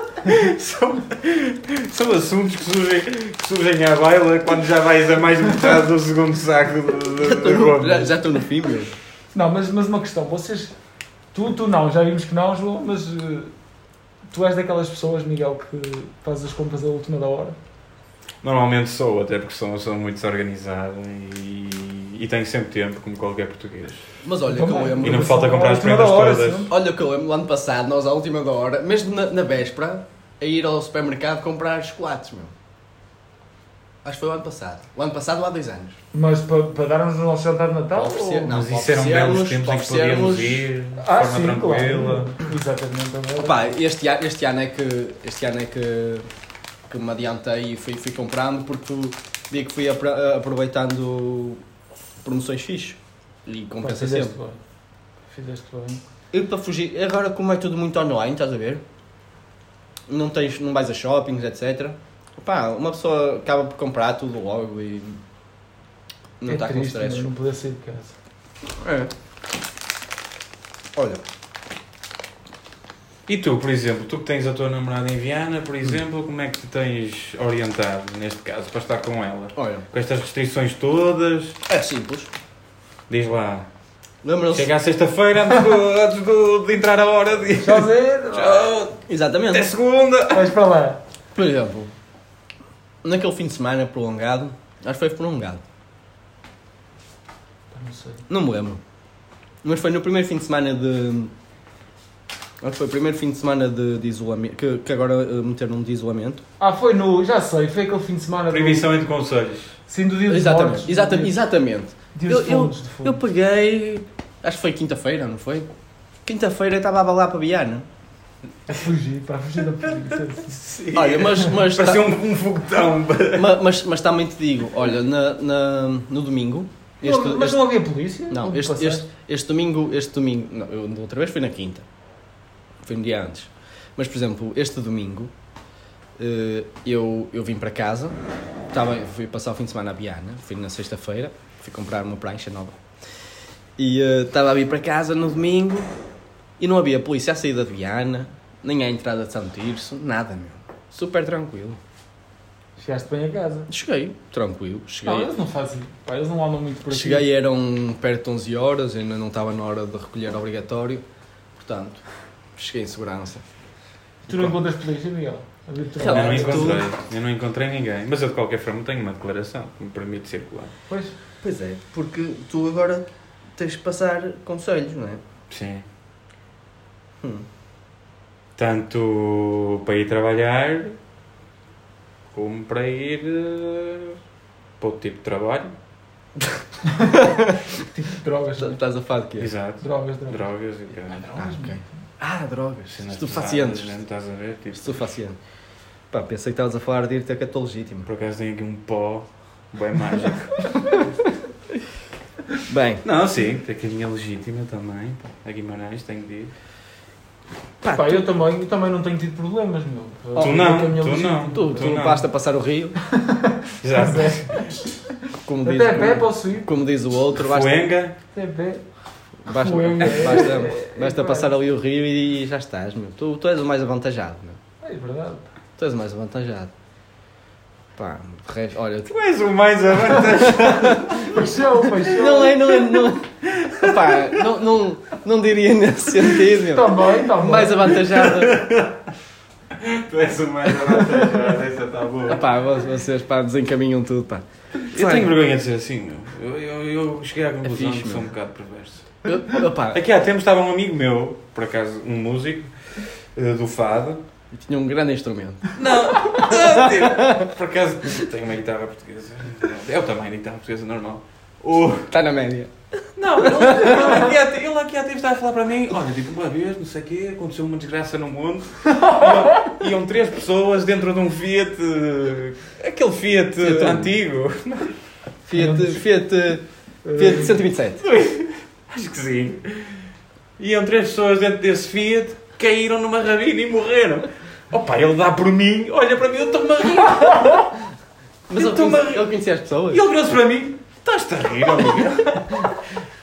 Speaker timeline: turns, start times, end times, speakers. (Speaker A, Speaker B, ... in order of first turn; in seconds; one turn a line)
Speaker A: 0.2-8.3
Speaker B: 7.2-8.9
Speaker C: 9.3-10.7
Speaker C: 11.3-13.5
Speaker C: 14.3-17.6
Speaker A: 18.4-24.1
Speaker B: 24.2-25.4
Speaker C: 24.5-26.7
Speaker A: 25.0-26.7
Speaker B: 26.7-32.5
Speaker B: 34.0-36.0
Speaker C: 36.1-38.5
Speaker B: 37.9-40.6
Speaker A: 38.5-42.3
Speaker C: 41.0-43.7
Speaker B: 43.4-46.3
Speaker B: 46.9-51.6
Speaker B: 52.2-54.3
Speaker C: 53.8-54.6
Speaker C: 55.3-56.0
Speaker B: 56.3-58.8
Speaker B: 60.1-65.2
Speaker B: 66.4-67.3
Speaker C: 66.5-68.1
Speaker B: 68.8-69.1
Speaker B: 71.0-71.2
Speaker A: 73.3-81.6
Speaker B: 79.5-79.8
Speaker B: 81.7-82.3
Speaker A: 83.1-83.7
Speaker B: 84.2-84.7
Speaker A: 84.5-90.5
Speaker C: 87.6-88.7
Speaker B: 89.1-89.7
Speaker C: 90.3-91.0
Speaker B: 91.3-91.9
Speaker B: 93.0-95.6
Speaker C: 97.7-98.2
Speaker B: 98.3-98.8
Speaker B: 99.6-101.3
Speaker B: 102.6-106.4
Speaker C: 106.6-108.9
Speaker A: 108.5-109.7
Speaker C: 109.9-111.3
Speaker B: 110.3-115.7
Speaker C: 112.1-113.2
Speaker B: 116.2-117.8
Speaker C: 118.7-120.6
Speaker A: 120.5-123.6
Speaker B: 120.9-122.1
Speaker B: 123.3-127.7
Speaker C: 127.0-129.0
Speaker B: 128.3-131.8
Speaker B: 132.8-135.3
Speaker B: 136.2-138.2
Speaker B: 138.7-142.8
Speaker B: 143.8-145.9
Speaker B: 146.6-151.8
Speaker C: 152.8-153.7
Speaker B: 153.7-155.3
Speaker C: 155.0-157.2
Speaker B: 156.9-161.0
Speaker B: 161.6-162.0
Speaker B: 162.6-163.4
Speaker C: 164.3-166.8
Speaker B: 166.0-166.8
Speaker A: 166.0-170.7
Speaker B: 171.4-175.2
Speaker A: 175.5-175.8
Speaker B: 177.2-177.4
Speaker A: 178.6-181.0
Speaker A: 182.3-184.2
Speaker A: 184.8-185.7
Speaker C: 186.9-187.2
Speaker B: 187.1-187.6
Speaker C: 187.9-188.8
Speaker B: 188.6-189.5
Speaker A: 189.4-191.3
Speaker C: 189.8-190.5
Speaker C: 191.1-191.9
Speaker B: 191.3-193.9
Speaker A: 192.9-195.0
Speaker B: 194.7-195.4
Speaker B: 196.1-198.1
Speaker A: 198.1-200.7
Speaker B: 202.7-203.0
Speaker A: 203.0-206.5
Speaker B: 207.8-208.3
Speaker C: 207.9-211.9
Speaker B: 210.3-210.6
Speaker A: 210.4-212.2
Speaker B: 211.5-213.0
Speaker C: 213.1-215.0
Speaker A: 213.8-214.7
Speaker B: 215.4-217.9
Speaker C: 215.6-216.7
Speaker A: 217.4-218.2
Speaker C: 218.3-218.8
Speaker B: 219.4-224.6
Speaker C: 219.5-221.5
Speaker A: 220.0-220.6
Speaker C: 224.8-225.5
Speaker B: 225.8-226.7
Speaker B: 227.9-229.1
Speaker A: 229.1-231.3
Speaker B: 230.0-231.3
Speaker C: 231.2-232.7
Speaker B: 232.0-238.7
Speaker A: 233.4-234.5
Speaker C: 236.5-237.9
Speaker A: 237.9-239.1
Speaker A: 239.7-242.5
Speaker B: 242.3-245.3
Speaker A: 244.9-249.1
Speaker B: 247.6-248.3
Speaker B: 249.2-250.0
Speaker A: 249.9-254.2
Speaker B: 254.5-257.5
Speaker A: 255.8-262.1
Speaker B: 262.1-264.2
Speaker A: 263.1-274.9
Speaker C: 268.9-269.7
Speaker B: 273.6-274.1
Speaker B: 275.5-276.6
Speaker C: 275.5-276.0
Speaker C: 277.0-277.6
Speaker B: 277.1-278.0
Speaker A: 278.0-280.1
Speaker A: 280.6-287.7
Speaker B: 288.5-290.0
Speaker A: 288.5-289.3
Speaker A: 289.9-292.7